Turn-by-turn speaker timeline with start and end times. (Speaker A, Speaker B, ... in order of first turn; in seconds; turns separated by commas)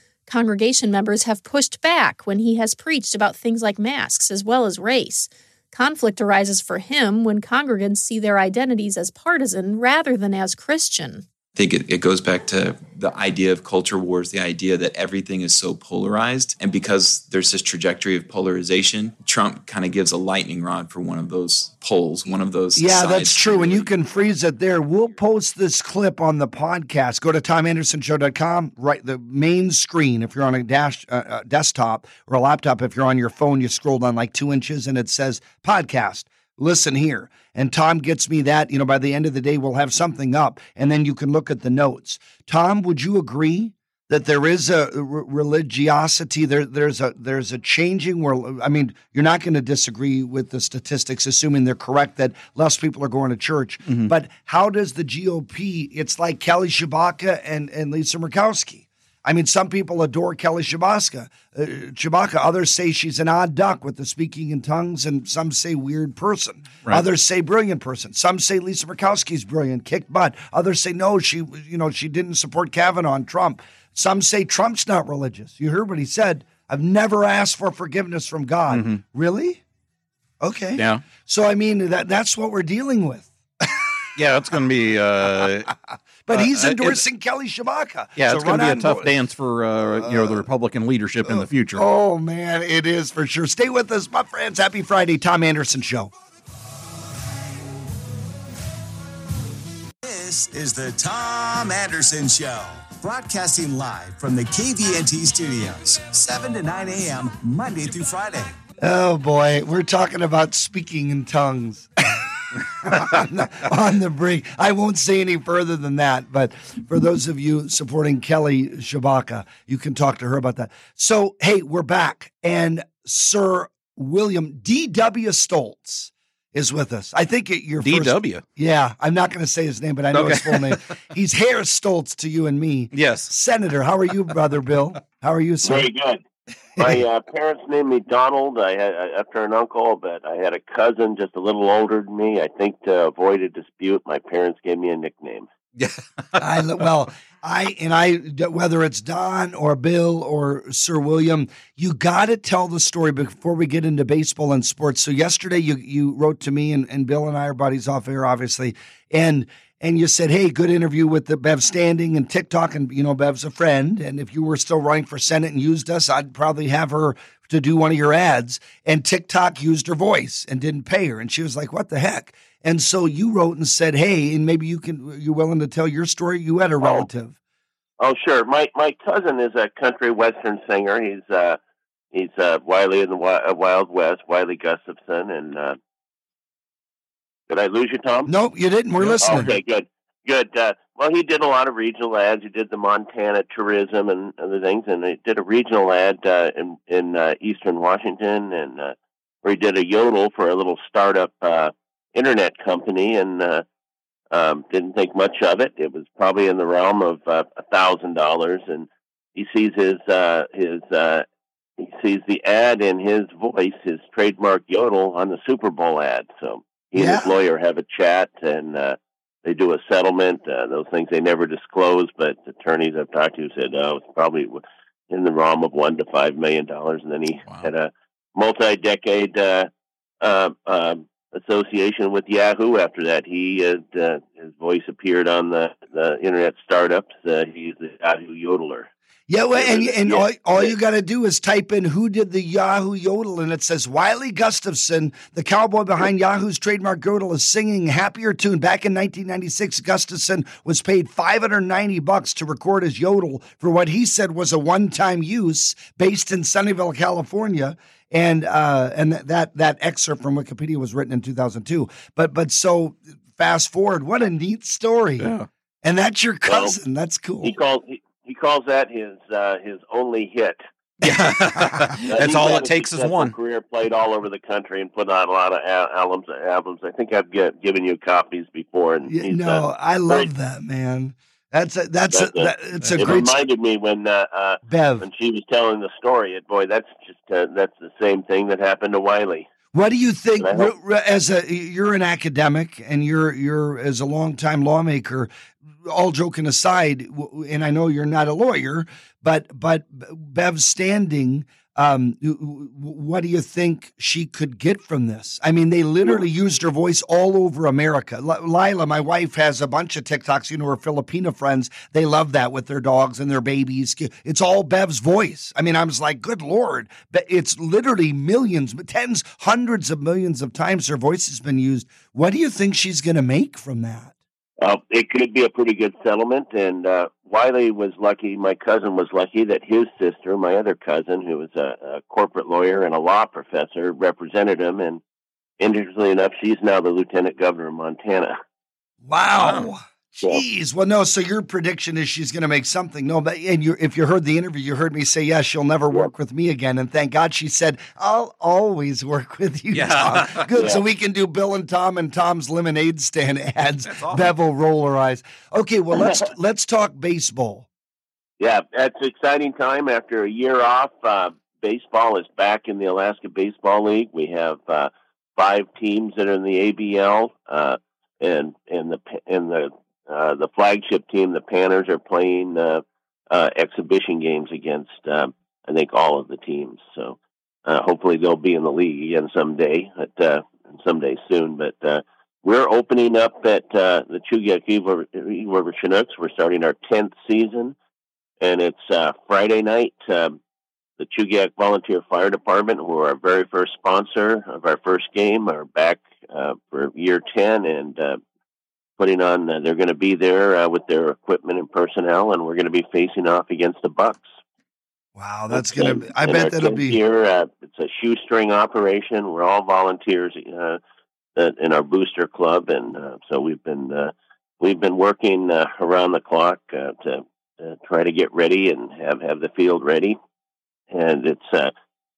Speaker A: 0.3-11.2, Speaker B: 11.6-23.9, Speaker C: 22.8-79.6, Speaker D: 53.9-54.1, Speaker D: 78.7-79.0, Speaker C: 80.4-83.8, Speaker D: 80.8-81.0, Speaker D: 84.2-85.7, Speaker C: 85.4-85.8, Speaker C: 86.3-89.2, Speaker D: 86.3-87.0, Speaker D: 88.2-91.9, Speaker C: 90.0-90.4, Speaker C: 91.3-96.1, Speaker E: 100.0-108.5, Speaker C: 108.8-135.9, Speaker D: 127.8-128.4, Speaker D: 130.1-130.8, Speaker D: 132.9-133.3, Speaker F: 135.6-136.2, Speaker C: 136.8-137.0, Speaker F: 136.8-145.5, Speaker D: 145.8-146.8, Speaker C: 146.4-177.4, Speaker F: 178.0-181.6, Speaker F: 182.1-185.8, Speaker F: 187.5-188.3, Speaker C: 188.3-189.5, Speaker D: 189.0-189.5, Speaker F: 189.2-203.6, Speaker F: 204.3-211.2, Speaker F: 211.8-229.7, Speaker C: 216.9-217.3, Speaker D: 227.5-227.7, Speaker F: 230.2-238.9, Speaker C: 239.3-265.3, Speaker F: 239.6-240.7, Speaker D: 265.2-265.5, Speaker C: 265.8-267.6, Speaker F: 266.5-266.7, Speaker F: 267.4-270.6, Speaker D: 271.0-273.4, Speaker C: 271.6-272.0, Speaker F: 272.1-280.3, Speaker C: 279.1-283.4, Speaker F: 282.1-289.5, Speaker D: 282.8-283.1, Speaker C: 284.7-285.1, Speaker C: 289.7-295.3, Speaker F: 290.4-290.7, Speaker C: 295.9-324.2, Speaker F: 324.6-335.0, Speaker F: 335.6-338.3, Speaker C: 339.0-357.7, Speaker D: 339.4-339.7, Speaker D: 349.7-350.5, Speaker F: 350.5-350.8, Speaker D: 353.9-354.3, Speaker F: 358.4-387.8, Speaker F: 388.4-390.4, Speaker F: 391.0-398.2, Speaker F: 399.0-404.3, Speaker C: 405.1-407.0, Speaker F: 405.5-410.8, Speaker F: 411.4-420.2, Speaker F: 420.9-421.7